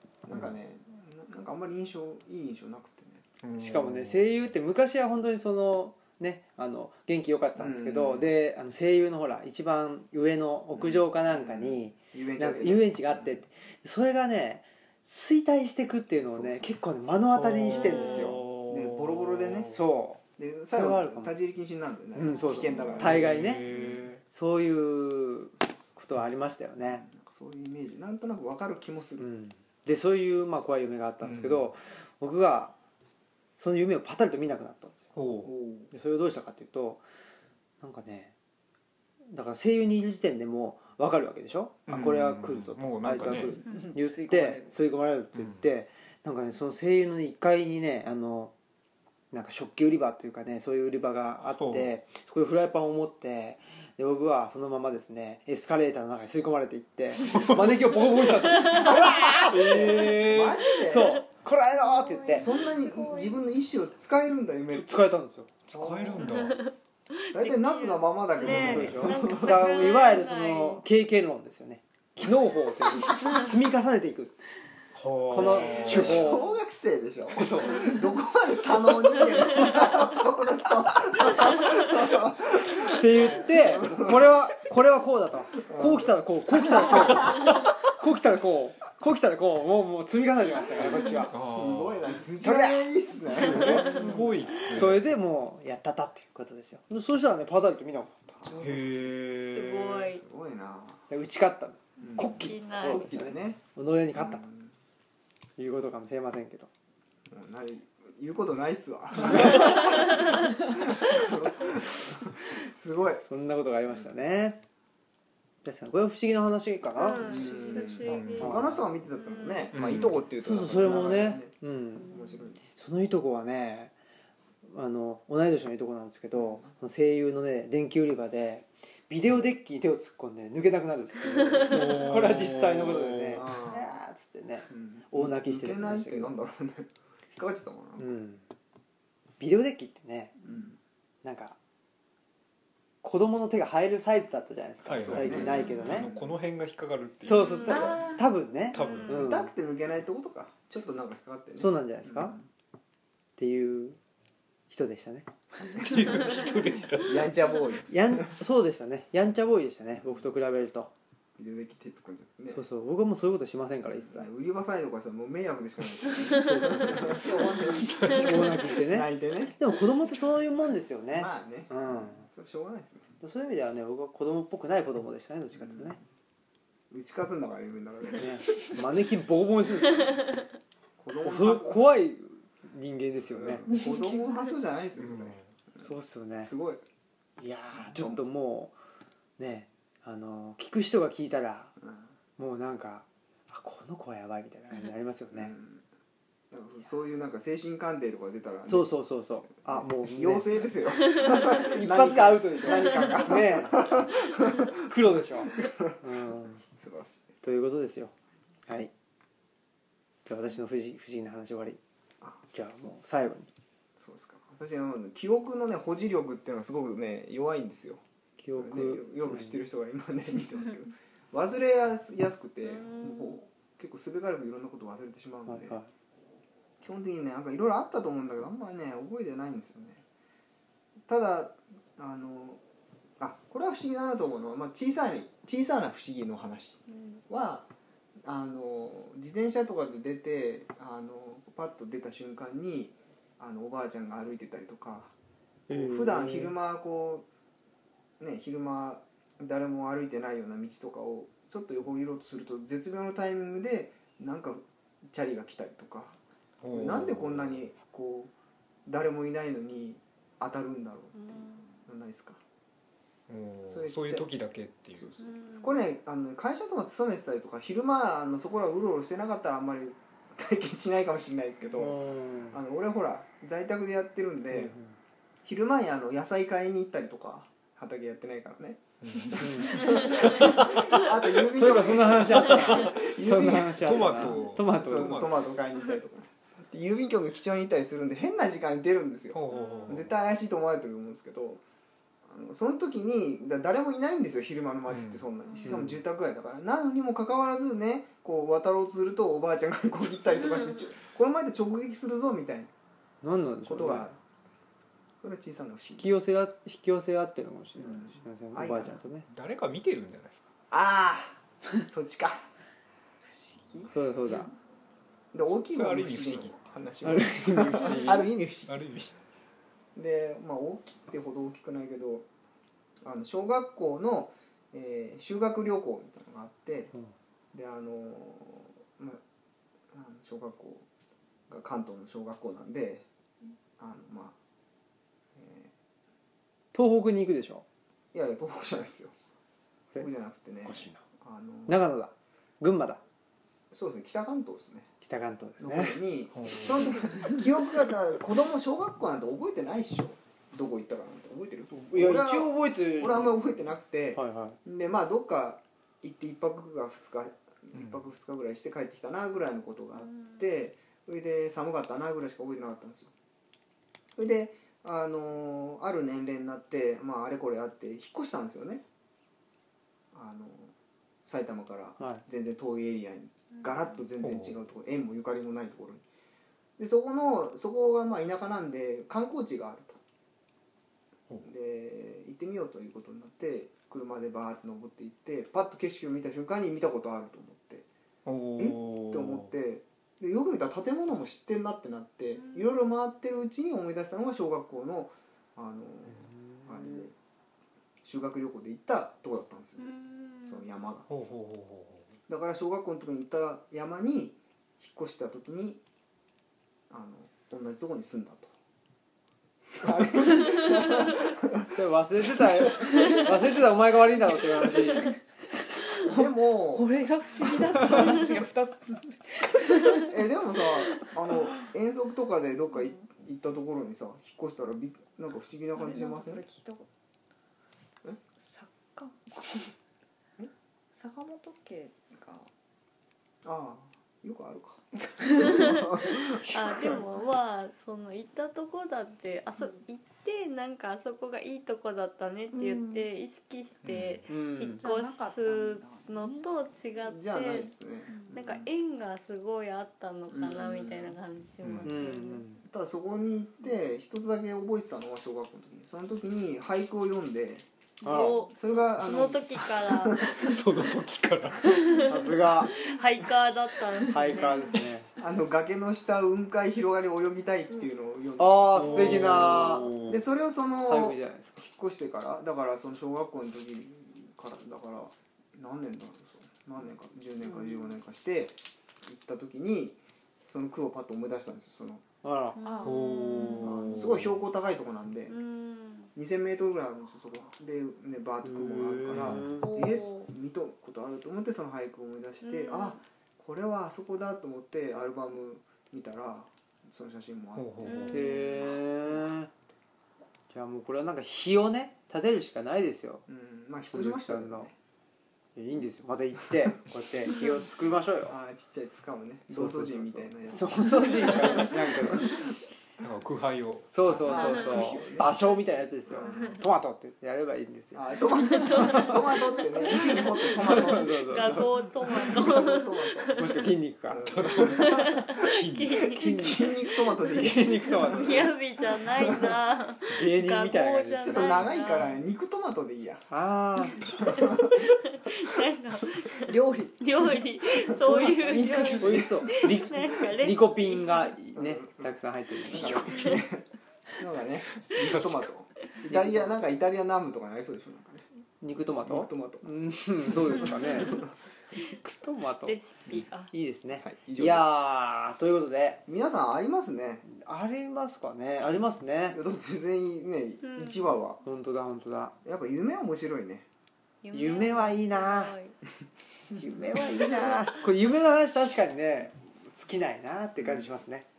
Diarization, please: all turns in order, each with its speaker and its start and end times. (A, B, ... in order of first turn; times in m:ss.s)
0:00.2-0:03.2 A
0:03.4-0:04.4 B
0:03.6-0:18.4 C
0:07.6-0:08.3 A
0:10.7-0:13.4 A
0:16.2-0:16.9 A
0:17.3-0:19.8 B
0:17.6-0:19.8 A
0:17.8-0:18.3 D
0:19.7-0:21.3 C
0:20.4-0:23.5 A
0:22.1-0:23.6 C
0:22.9-0:24.2 B
0:24.3-0:27.0 C
0:26.8-0:29.3 A
0:29.2-0:32.7 C
0:31.2-0:31.7 B
0:33.6-0:35.0 C
0:35.1-0:35.6 B
0:35.4-0:35.9 A
0:35.9-0:37.0 C
0:37.8-0:38.3 C
0:39.2-0:48.5 C
0:41.9-0:43.6 B
0:43.6-0:44.8 E
0:45.3-0:45.6 B
0:49.3-1:02.5 C
0:51.4-0:51.9 B
0:57.3-0:57.9 B
0:58.5-0:59.0 D
0:58.8-1:01.2 A
0:59.3-1:00.7 B
1:00.9-1:01.2 D
1:01.8-1:03.5 D
1:02.3-1:05.0 A
1:04.7-1:05.5 C
1:05.7-1:06.6 B
1:05.7-1:06.4 A
1:06.2-1:10.8 D
1:07.3-1:09.9 A
1:08.4-1:14.4 C
1:08.5-1:09.0 B
1:13.1-1:13.4 D
1:14.9-1:16.4 B
1:15.3-1:16.5 C
1:15.3-1:24.3 A
1:17.3-1:18.0 B
1:22.8-1:31.3 C
1:25.6-1:27.5 A
1:30.8-1:34.2 A
1:31.0-1:32.3 B
1:32.4-1:38.5 C
1:33.4-1:35.1 B
1:38.4-1:38.8 A
1:38.5-1:40.1 B
1:39.4-1:40.2 D
1:40.1-1:41.0 A
1:41.1-1:44.4 C
1:42.0-1:43.6 A
1:42.1-1:43.1 D
1:44.1-1:44.7 A
1:45.6-1:46.7 C
1:47.3-1:53.2 A
1:49.2-1:49.7 C
1:53.2-1:54.6 C
1:55.6-1:57.5 C
1:57.0-1:59.7 D
1:57.2-2:02.6 A
1:58.0-1:58.6 B
1:58.4-1:58.8 C
1:59.7-2:00.2 B
2:00.4-2:03.9 C
2:04.6-2:16.3 C
2:06.3-2:06.7 A
2:11.6-2:13.4 B
2:13.3-2:14.0 A
2:14.7-2:18.1 A
2:18.0-2:18.4 C
2:19.4-2:20.3 C
2:20.4-2:20.8 A
2:21.2-2:21.6 C
2:23.0-2:26.1 C
2:24.8-2:28.1 B
2:25.0-2:26.4 A
2:27.2-2:29.5 C
2:27.7-2:28.2 E
2:28.7-2:29.4 B
2:28.7-2:29.2 D
2:29.1-2:32.5 A
2:31.6-2:32.4 C
2:33.4-2:34.0 C
2:34.7-2:35.3 C
2:35.7-2:37.3 B
2:37.0-2:38.3 A
2:37.9-2:40.9 C
2:41.4-2:42.6 A
2:42.5-2:44.3 C
2:44.0-2:49.6 A
2:46.4-2:47.0 C
2:47.8-2:52.2 C
2:48.0-2:48.3 B
2:51.1-2:53.1 A
2:53.2-2:56.0 C
2:55.6-2:56.0 A
2:56.9-2:58.7 A
2:58.1-3:00.2 C
3:01.0-3:01.8 A
3:01.2-3:03.6 C
3:03.2-3:06.8 A
3:05.0-3:05.5 B
3:05.8-3:06.5 C
3:07.4-3:08.7 C
3:07.8-3:08.2 A
3:09.4-3:11.7 C
3:11.8-3:12.1 A
3:12.4-3:15.5 C
3:15.3-3:15.8 A
3:16.5-3:26.0 A
3:18.7-3:26.6 C
3:26.7-3:27.2 A
3:27.4-3:28.1 C
3:30.2-3:31.8 C
3:32.5-3:33.5 C
3:34.0-3:38.0 A
3:38.4-3:39.6 C
3:38.6-3:45.8 A
3:42.6-3:43.4 D
3:45.5-3:45.9 C
3:46.8-3:50.0 A
3:51.1-3:52.6 A
3:53.2-3:57.7 A
3:58.2-4:05.1 A
4:05.7-4:06.5 C
4:05.7-4:07.2 A
4:08.2-4:16.2 A
4:16.6-4:17.6 B
4:16.7-4:18.3 A
4:18.8-4:22.4 A
4:21.1-4:21.7 D
4:23.3-4:25.1 B
4:23.7-4:24.2 A
4:25.0-4:34.8 A
4:25.2-4:25.8 D
4:31.7-4:32.6 C
4:34.5-4:34.9 C
4:35.4-4:51.6 A
4:39.0-4:40.7 B
4:39.4-4:40.7 C
4:41.4-4:45.2 C
4:43.5-4:45.5 B
4:49.3-4:50.1 B
4:49.5-4:50.0 D
4:52.2-5:02.7 A
4:54.9-4:55.8 B
4:55.6-4:56.0 C
5:03.2-5:04.1 C
5:03.6-5:04.2 A
5:05.2-5:06.1 A
5:06.0-5:09.3 C
5:07.8-5:09.0 A
5:09.3-5:10.5 B
5:10.7-5:12.4 A
5:13.3-5:14.3 E
5:13.9-5:14.5 C
5:15.3-5:18.8 A
5:15.7-5:16.7 B
5:17.0-5:18.3 C
5:18.7-5:19.1 B
5:19.9-5:22.3 A
5:23.0-5:26.9 A
5:27.5-5:29.2 A
5:29.9-5:30.8 A
5:31.5-5:33.0 A
5:33.8-5:34.4 A
5:35.4-5:35.7 A
5:36.7-5:37.6 C
5:38.1-5:39.1 A
5:39.9-5:41.8 A
5:40.6-5:41.0 C
5:41.7-5:43.0 C
5:43.7-5:44.9 A
5:45.0-5:46.0 C
5:45.6-6:03.1 A
5:46.3-5:47.2 B
5:51.7-5:53.4 C
5:54.1-5:54.6 C
5:57.7-5:58.0 B
6:00.0-6:00.4 D
6:04.2-6:08.8 A
6:10.1-6:10.7 A
6:11.2-6:16.0 A
6:14.2-6:14.6 B
6:16.8-6:20.0 A
6:21.4-6:27.9 A
6:28.2-6:29.5 B
6:28.6-6:37.1 A
6:32.4-6:32.7 D
6:38.0-6:39.9 A
6:39.8-6:40.6 D
6:40.4-6:41.1 A
6:41.1-6:42.2 B
6:42.3-6:45.8 A
6:46.9-6:48.5 A
6:49.7-6:51.8 A
6:51.7-6:55.2 C
6:52.3-6:52.7 A
6:56.0-6:56.9 A
6:56.7-7:00.1 E
7:00.0-7:06.4 A
7:05.7-7:06.9 E
7:08.4-7:09.7 E
7:10.9-7:12.5 E
7:13.4-7:16.9 A
7:15.3-7:32.4 D
7:22.5-7:23.0 E
7:23.8-7:24.2 B
7:24.3-7:24.8 C
7:24.8-7:26.5 E
7:27.1-7:28.7 A
7:30.3-7:31.2 A
7:31.6-7:31.9 B
7:31.8-7:32.6 C
7:32.7-7:37.6 A
7:38.0-7:40.5 D
7:38.0-7:38.4 C
7:38.5-7:40.6 A
7:40.2-7:42.2 B
7:41.6-7:44.8 D
7:42.1-7:42.7 C
7:44.1-7:45.1 C
7:45.2-8:02.0 A
7:48.4-7:49.9 C
7:48.7-7:50.2 B
7:50.8-7:51.6 C
8:02.2-8:02.6 C
8:02.6-8:03.6 D
8:02.6-8:03.6 E
8:02.8-8:04.4 B
8:03.6-8:05.4 A
8:05.3-8:06.1 D
8:06.1-8:18.2 A
8:08.4-8:09.8 C
8:09.0-8:09.6 B
8:09.6-8:10.3 D
8:12.4-8:13.0 D
8:17.5-8:18.1 B
8:17.8-8:18.8 D
8:18.1-8:19.5 C
8:20.5-8:23.2 C
8:23.3-8:24.7 A
8:23.8-8:24.7 C
8:25.6-8:28.4 C
8:28.3-8:32.4 A
8:29.5-8:32.4 C
8:33.0-8:34.4 B
8:33.9-8:38.1 C
8:34.1-8:35.4 A
8:34.3-8:35.0 D
8:36.0-8:36.6 A
8:36.3-8:36.6 D
8:37.9-8:43.4 A
8:38.4-8:43.6 D
8:38.7-8:39.2 C
8:40.2-8:41.7 C
8:43.4-8:44.3 C
8:44.1-8:45.4 A
8:44.2-8:46.2 B
8:44.7-8:46.6 D
8:46.1-8:48.3 C
8:46.4-8:49.5 A
8:47.9-8:52.2 D
8:50.1-8:51.6 C
8:51.2-8:53.3 A
8:53.3-8:54.0 C
8:54.0-8:54.3 D
8:54.1-8:54.9 A
8:54.8-9:01.3 D
8:56.5-8:59.6 E
8:59.0-9:03.3 C
9:01.5-9:02.1 A
9:02.6-9:03.6 A
9:03.1-9:03.4 D
9:04.2-9:08.2 A
9:04.9-9:05.5 B
9:06.1-9:06.6 C
9:08.6-9:16.0 C
9:09.0-9:09.6 A
9:10.2-9:11.3 A
9:12.6-9:13.5 D
9:14.0-9:14.7 A
9:16.0-9:17.2 A
9:17.2-9:19.4 C
9:19.3-9:21.4 A
9:20.6-9:21.1 D
9:21.4-9:22.3 C
9:22.4-9:23.6 A
9:24.2-9:25.7 D
9:24.3-9:25.6 C
9:26.6-9:31.2 C
9:27.0-9:27.6 A
9:30.6-9:30.9 A